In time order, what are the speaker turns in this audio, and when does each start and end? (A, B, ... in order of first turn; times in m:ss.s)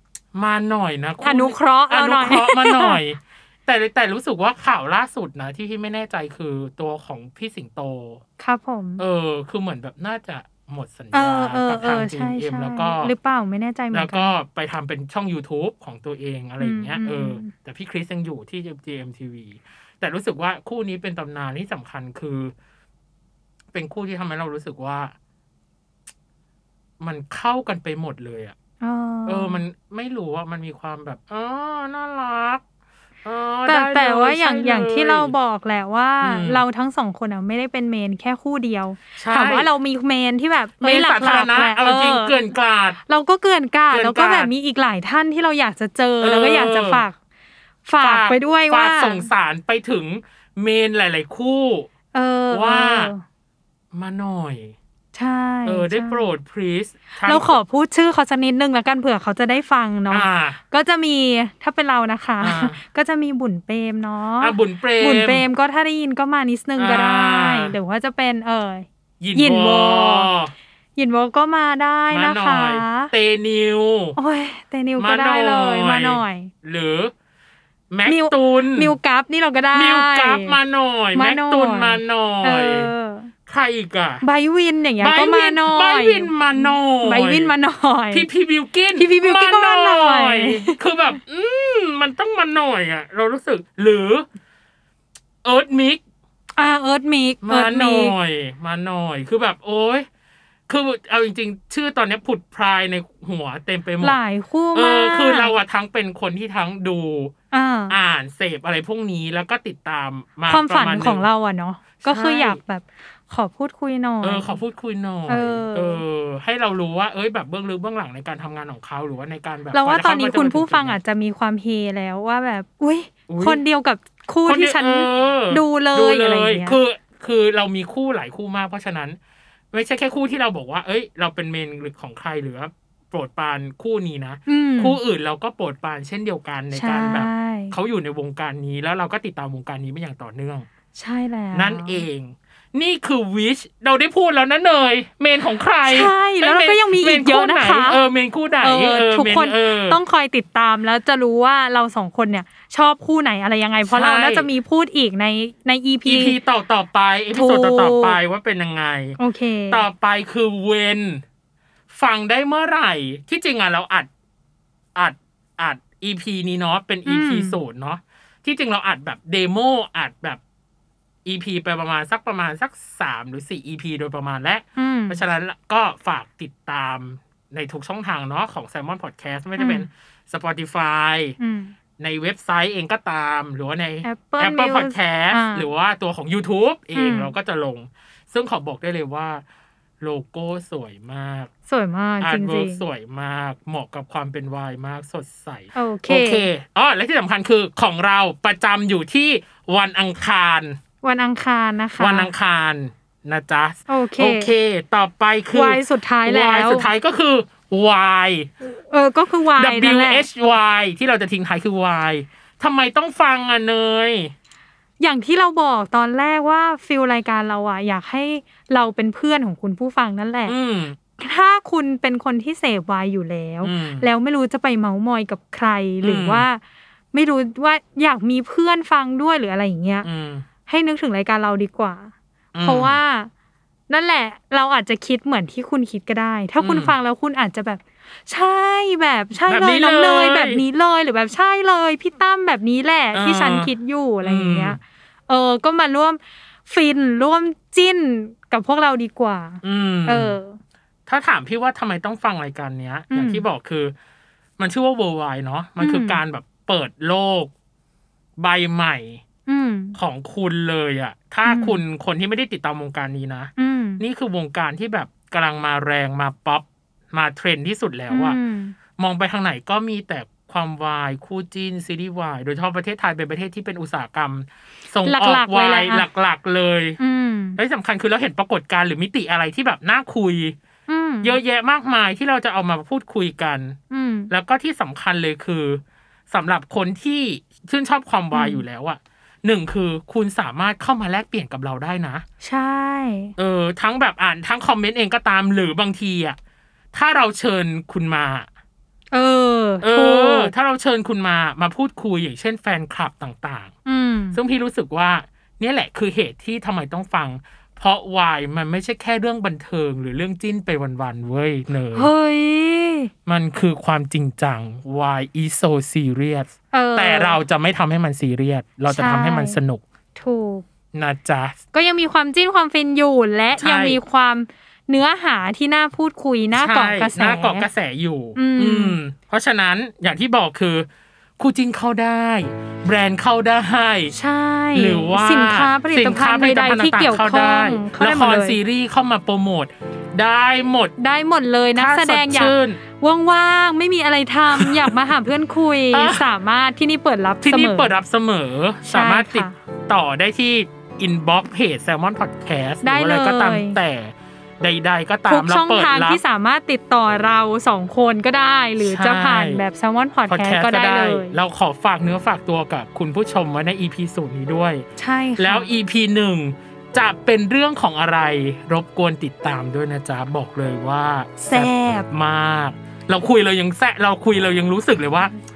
0:00.3-0:08.2 A
0:01.2-0:03.0 B
0:08.4-0:09.0 B
0:09.0-0:13.1 A
0:11.1-0:14.3 B
0:13.9-0:22.5 A
0:16.6-0:17.5 B
0:23.7-0:25.1 A
0:27.0-0:28.5 A
0:28.8-0:29.6 B
0:29.2-0:32.6 A
0:33.2-0:35.3 A
0:33.6-0:42.4 B
0:36.2-0:36.6 A
0:39.2-0:39.7 A
0:40.8-0:43.0 A
0:43.0-0:47.1 B
0:43.9-0:44.5 A
0:46.2-0:47.0 A
0:47.8-0:49.3 B
0:48.0-0:51.9 A
0:52.1-0:53.2 B
0:52.5-0:53.1 A
0:53.9-0:54.7 A
0:55.1-0:56.2 B
0:55.6-0:57.6 A
0:57.2-1:10.3 B
1:00.1-1:00.6 A
1:02.4-1:02.8 A
1:04.4-1:05.4 A
1:06.8-1:07.8 A
1:09.2-1:10.5 A
1:11.0-1:13.1 B
1:12.1-1:14.2 A
1:14.2-1:16.5 B
1:15.0-1:17.1 A
1:17.9-1:19.0 A
1:18.0-1:20.6 B
1:19.7-1:22.9 A
1:21.1-1:23.3 B
1:23.5-1:24.2 A
1:24.2-1:28.3 B
1:25.0-1:27.5 A
1:28.1-1:34.2 A
1:29.0-1:30.7 B
1:35.4-1:36.0 A
1:36.6-1:38.2 B
1:37.4-1:40.0 A
1:40.7-1:44.2 A
1:44.0-1:45.5 B
1:44.7-1:47.3 A
1:47.5-1:48.0 B
1:47.9-1:51.2 A
1:50.5-1:54.6 B
1:52.0-1:52.6 A
1:54.2-2:01.0 A
1:55.3-1:56.0 B
1:59.7-2:06.8 B
2:03.3-2:03.6 A
2:04.4-2:09.2 A
2:09.7-2:20.7 A
2:14.5-2:15.0 B
2:16.7-2:17.8 B
2:20.9-2:22.0 B
2:21.5-2:30.0 A
2:25.8-2:28.0 B
2:28.6-2:36.4 B
2:33.8-2:34.5 A
2:36.0-2:39.2 A
2:37.3-2:38.2 B
2:39.2-2:39.8 B
2:39.7-2:41.2 A
2:41.9-2:44.1 A
2:45.0-2:50.4 A
2:47.0-2:47.6 B
2:51.2-3:01.4 A
2:54.8-2:55.2 B
2:59.6-2:59.9 B
3:01.4-3:01.7 B
3:02.0-3:09.4 A
3:04.0-3:05.7 B
3:06.9-3:07.3 B
3:10.0-3:11.5 A
3:11.7-3:12.8 B
3:12.2-3:20.8 A
3:15.7-3:16.5 B
3:21.0-3:22.3 B
3:22.0-3:28.5 A
3:23.9-3:24.5 B
3:25.5-3:26.9 B
3:28.7-3:30.3 B
3:29.6-3:34.3 A
3:35.0-3:40.6 B
3:40.4-3:41.0 A
3:41.2-3:46.6 B
3:43.6-3:44.1 A
3:46.0-3:46.4 A
3:47.1-3:50.1 B
3:50.0-3:50.4 A
3:50.7-3:53.3 B
3:52.5-3:53.0 A
3:53.9-4:10.6 B
3:56.6-3:57.0 A
3:59.5-4:00.6 A
4:03.1-4:03.7 A
4:04.2-4:04.8 A
4:09.6-4:10.4 A
4:11.1-4:13.9 A
4:13.1-4:13.4 B
4:14.6-4:17.5 A
4:15.8-4:16.2 B
4:18.4-4:19.2 A
4:19.4-4:20.0 B
4:19.9-4:28.4 A
4:21.4-4:21.8 B
4:23.6-4:24.0 B
4:28.1-4:28.8 B
4:29.0-4:37.0 A
4:35.0-4:36.1 B
4:37.0-4:37.6 B
4:37.6-4:40.5 A
4:40.9-4:41.4 B
4:41.2-4:43.8 A
4:43.9-4:44.3 B
4:44.3-4:52.2 A
4:48.3-4:48.6 B
4:52.4-4:53.3 B
4:53.4-4:56.4 A
4:56.9-4:58.5 A
4:59.1-5:00.5 B
4:59.8-5:03.7 A
5:03.8-5:04.4 B
5:04.3-5:12.1 A
5:11.9-5:13.1 B
5:13.2-5:19.8 A
5:16.7-5:17.4 B
5:18.9-5:19.6 B
5:20.1-5:20.6 B
5:20.9-5:21.6 A
5:21.7-5:27.7 B
5:23.5-5:24.0 A
5:26.5-5:30.9 A
5:28.3-5:29.0 B
5:31.4-5:34.1 A
5:34.1-5:38.6 B
5:34.7-5:40.9 A
5:41.0-5:47.9 B
5:41.8-5:42.8 A
5:44.5-5:44.9 A
5:45.9-5:46.3 A
5:47.4-5:56.2 A
5:48.8-5:49.6 B
5:52.8-5:53.8 B
5:55.3-6:01.4 B
5:58.8-5:59.6 A
6:00.3-6:04.8 A
6:05.0-6:05.7 B
6:05.4-6:15.3 A
6:11.4-6:12.1 B